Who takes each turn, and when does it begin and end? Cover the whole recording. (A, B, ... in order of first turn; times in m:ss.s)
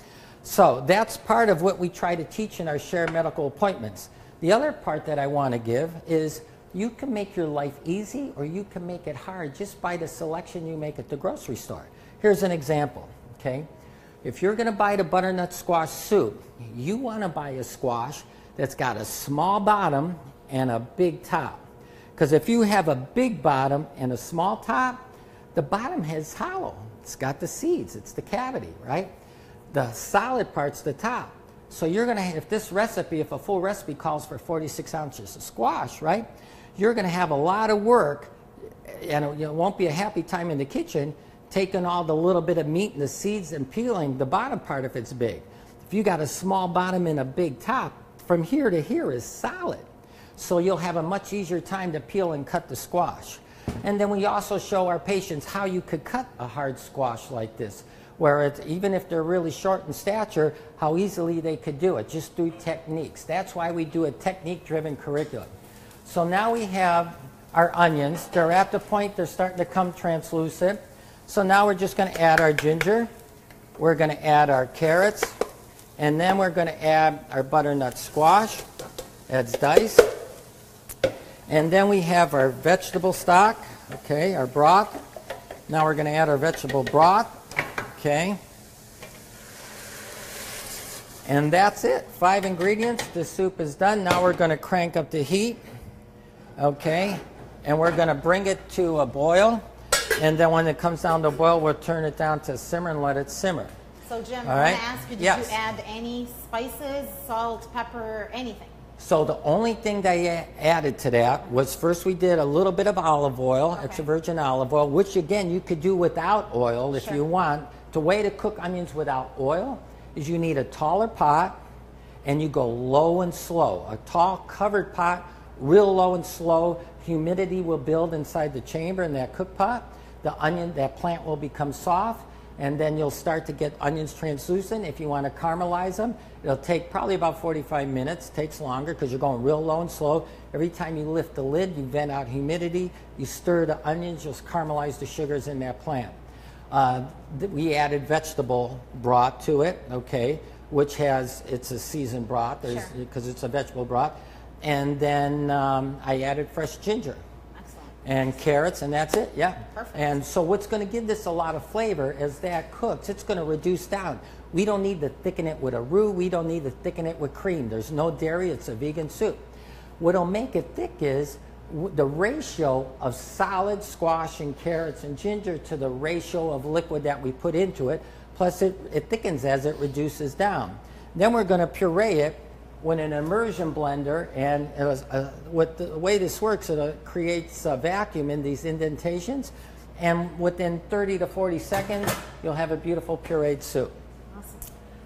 0:00.4-0:13.7 A
0:14.2-0:21.6 A
0:22.2-0:25.0 A
0:25.5-0:29.1 A
0:29.7-0:38.3 A
0:38.9-1:05.5 A
1:06.0-1:13.1 A
1:13.8-1:15.3 A
1:16.0-1:18.6 A
1:19.3-1:20.1 A
1:21.5-1:25.0 A
1:25.7-1:27.4 A
1:28.0-1:28.4 A
1:31.3-1:35.6 A
1:36.6-1:39.6 A
1:40.2-1:43.7 A
1:44.1-1:48.7 B
1:44.5-1:45.6 A
1:49.0-2:01.6 A
1:53.7-1:54.0 B
1:56.9-1:57.2 B
2:02.2-2:26.2 A
2:26.7-2:37.2 A
2:32.7-2:32.9 B
2:37.6-2:38.0 B
2:38.0-2:49.4 A
2:39.7-2:40.2 B
2:50.0-3:13.9 A
3:14.3-3:14.6 B